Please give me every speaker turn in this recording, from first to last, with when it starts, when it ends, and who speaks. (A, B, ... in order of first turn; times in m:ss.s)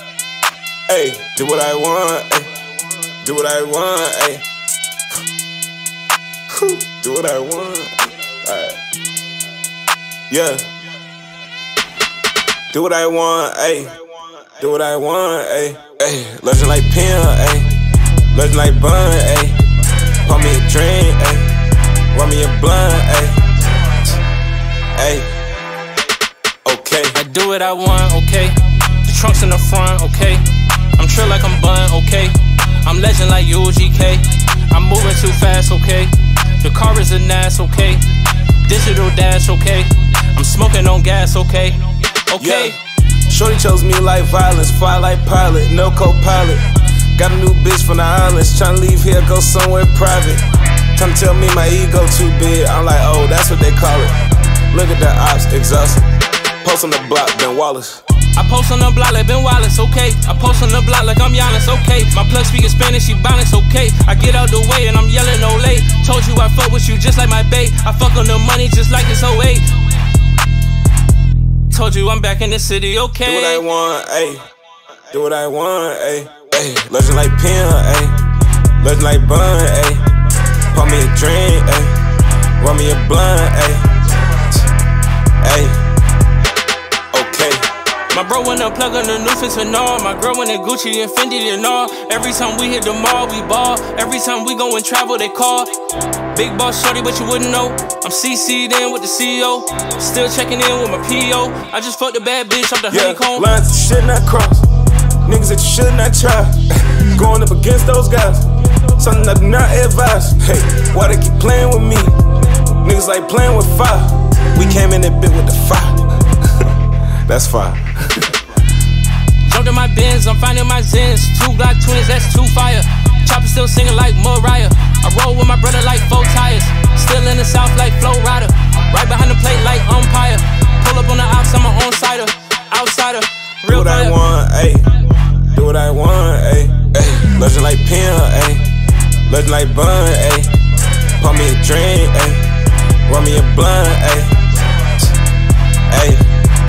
0:00.9-0:02.5 A
0:03.2-0:04.4 A
0:06.5-0:08.8 A
0:10.3-0:10.6 A
0:12.7-0:17.7 A
0:18.3-0:21.5 A
0:22.1-0:24.1 A
0:25.0-0:25.4 A
0:26.6-0:27.2 A
0:27.2-0:42.8 B
0:42.4-0:50.4 A
0:50.9-0:54.1 A
0:54.7-0:56.1 A
0:56.6-0:58.0 A
0:58.4-1:09.7 B
1:11.7-1:13.6 B
1:13.2-1:14.4 A
1:15.1-1:18.2 A
1:18.8-1:20.1 A
1:20.7-1:22.0 A
1:22.6-1:24.6 A
1:25.4-1:25.8 A
1:27.1-1:27.7 A
1:28.1-1:35.7 B
1:36.3-1:43.5 B
1:42.9-1:44.7 A
1:45.2-1:52.2 A
1:52.8-1:58.4 A
1:59.4-2:14.2 B
2:13.7-2:18.6 A
2:19.3-2:20.5 A
2:21.2-2:22.5 A
2:23.1-2:25.1 A
2:25.9-2:26.3 A